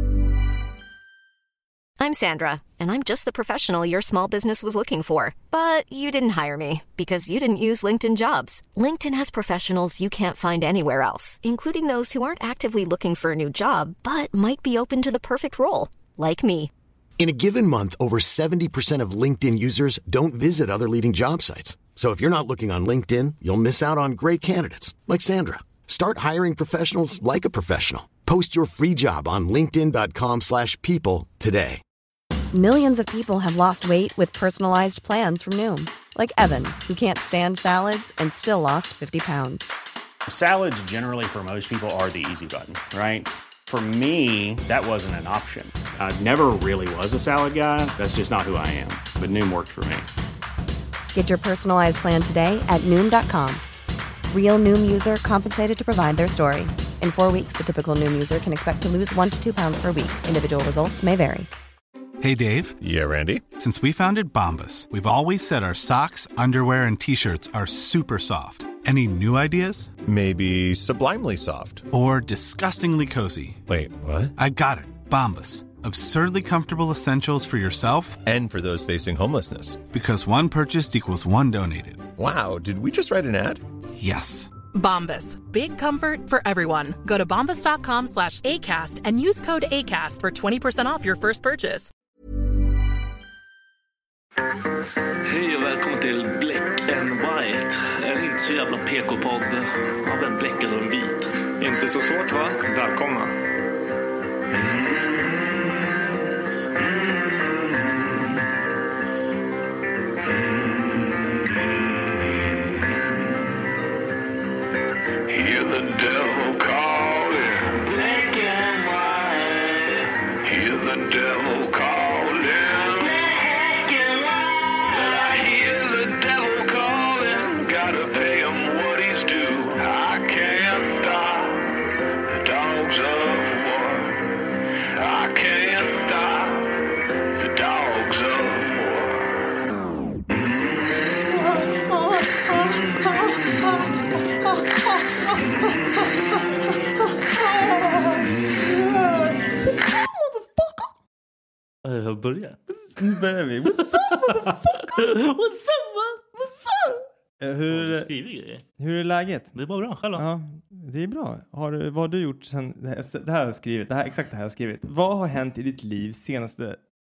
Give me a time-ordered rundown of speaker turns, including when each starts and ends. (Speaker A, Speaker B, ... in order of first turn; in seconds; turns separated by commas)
Speaker A: 2.0-16.7, Speaker B: 17.2-31.8, Speaker C: 32.5-39.6, Speaker D: 40.3-50.1, Speaker C: 51.1-53.6, Speaker C: 54.3-61.5, Speaker E: 62.2-62.8, Speaker F: 62.8-63.4, Speaker E: 63.5-69.9, Speaker F: 70.0-71.8, Speaker E: 71.9-73.6, Speaker F: 73.7-74.3, Speaker E: 74.3-78.2, Speaker F: 78.2-79.8, Speaker E: 79.9-82.1, Speaker F: 82.2-83.6, Speaker E: 84.0-84.5, Speaker G: 84.7-91.9, Speaker H: 95.2-101.3, Speaker I: 101.6-103.3, Speaker J: 115.3-124.1, Speaker J: 124.8-134.2, Speaker J: 134.9-139.5, Speaker I: 141.4-143.4, Speaker I: 147.3-150.9, Speaker H: 151.8-152.6, Speaker I: 152.7-155.2, Speaker H: 153.9-156.4, Speaker I: 156.4-158.1, Speaker H: 157.7-158.6, Speaker I: 158.8-159.6, Speaker H: 159.5-160.2, Speaker I: 160.1-166.8